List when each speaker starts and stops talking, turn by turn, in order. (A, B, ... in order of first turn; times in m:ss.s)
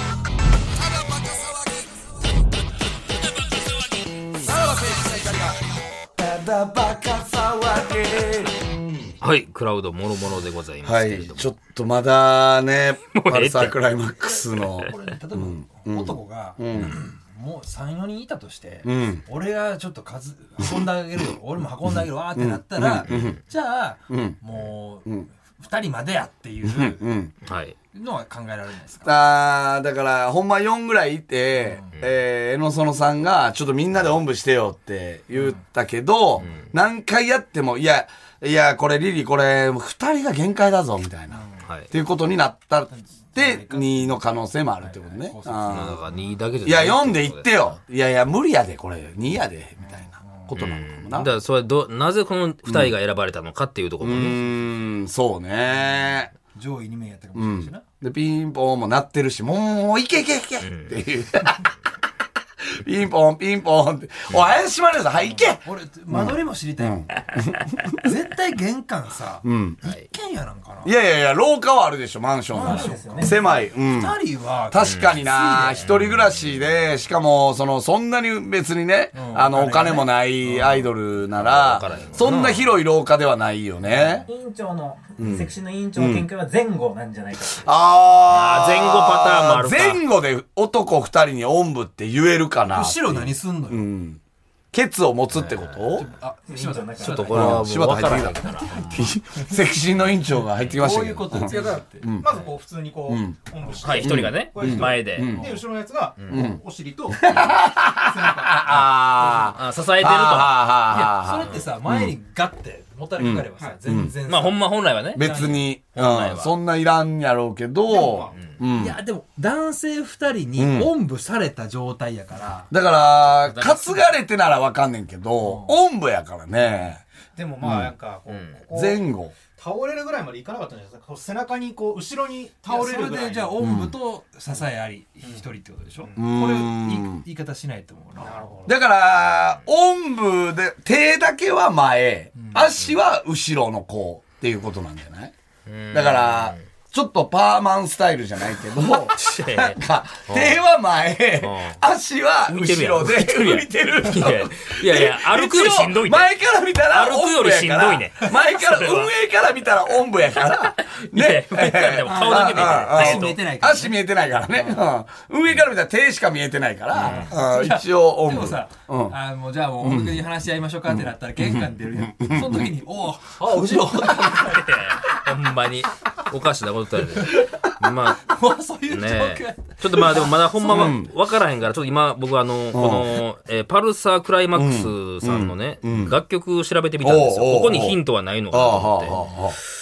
0:00.9-0:01.6 A
0:04.4-0:05.6 A
0:06.2-0:09.1 A
0:09.2-0:11.5 B
0:10.8-0:17.0 A
0:13.1-0:13.7 B
0:14.4-0:27.0 C
0:18.8-0:19.2 A
0:22.3-0:23.4 A
0:23.0-0:23.4 B
0:24.1-0:24.4 A
0:26.6-0:27.3 A
0:27.4-0:27.8 B
0:27.9-0:29.1 C
0:29.0-0:46.0 A
0:36.4-0:36.7 B
0:41.3-0:41.6 C
0:41.6-0:41.9 B
0:43.3-0:43.9 C
0:44.8-0:46.0 C
0:45.7-0:47.8 B
0:46.6-0:51.3 A
0:49.8-0:50.6 C
0:50.6-0:54.6 B
0:52.7-0:52.9 A
0:54.0-0:56.3 A
0:56.5-0:57.8 C
0:57.3-1:01.7 A
1:00.6-1:01.0 B
1:02.8-1:08.0 A
1:04.3-1:04.6 B
1:05.6-1:07.1 C
1:08.0-1:10.9 C
1:09.4-1:09.8 A
1:10.8-1:14.2 A
1:12.5-1:15.9 C
1:12.7-1:13.4 D
1:14.7-1:24.3 A
1:14.8-1:15.1 B
1:15.8-1:16.4 B
1:19.1-1:20.9 C
1:21.4-1:22.7 B
1:24.3-1:27.7 D
1:25.2-1:26.3 A
1:27.5-1:34.2 A
1:28.3-1:30.0 B
1:32.7-1:33.9 C
1:34.7-1:36.1 A
1:35.3-1:35.9 B
1:36.0-1:37.7 C
1:36.6-1:37.5 D
1:37.0-1:39.1 B
1:37.3-1:42.4 A
1:38.6-1:39.1 C
1:40.8-1:41.9 C
1:40.8-1:47.4 E
1:43.1-1:43.4 A
1:43.8-1:45.6 B
1:44.0-1:45.6 A
1:46.2-1:46.6 B
1:46.3-1:46.6 A
1:47.3-1:52.1 A
1:48.0-1:48.5 E
1:49.5-1:50.8 B
1:50.9-1:54.6 C
1:53.2-1:54.1 A
1:54.3-1:55.3 B
1:55.2-1:59.0 A
1:55.2-1:55.6 C
1:55.9-1:56.6 B
1:58.1-1:58.6 B
1:58.8-2:02.7 C
2:00.6-2:00.9 A
2:02.7-2:07.0 A
2:03.3-2:04.1 B
2:05.4-2:05.8 C
2:07.4-2:09.0 E
2:07.6-2:07.9 A
2:08.3-2:08.7 B
2:08.7-2:09.3 A
2:09.6-2:13.6 E
2:12.6-2:18.4 C
2:13.6-2:14.0 A
2:16.2-2:17.2 A
2:18.2-2:18.7 E
2:18.6-2:25.3 A
2:25.7-2:26.6 B
2:25.9-2:49.2 A
2:28.9-2:30.6 B
2:31.4-2:31.8 B
2:32.5-2:36.3 B
2:36.9-2:39.1 B
2:40.7-2:43.4 B
2:42.0-2:44.0 C
2:44.5-2:44.8 C
2:46.9-2:47.3 B
2:47.0-2:54.6 C
2:49.8-2:50.3 A
2:50.9-2:52.8 A
2:53.9-2:58.3 B
2:58.2-3:01.0 C
2:58.9-3:09.4 B
3:00.6-3:01.1 A
3:02.7-3:03.2 A
3:04.5-3:06.2 A
3:07.0-3:08.0 A
3:08.5-3:09.6 A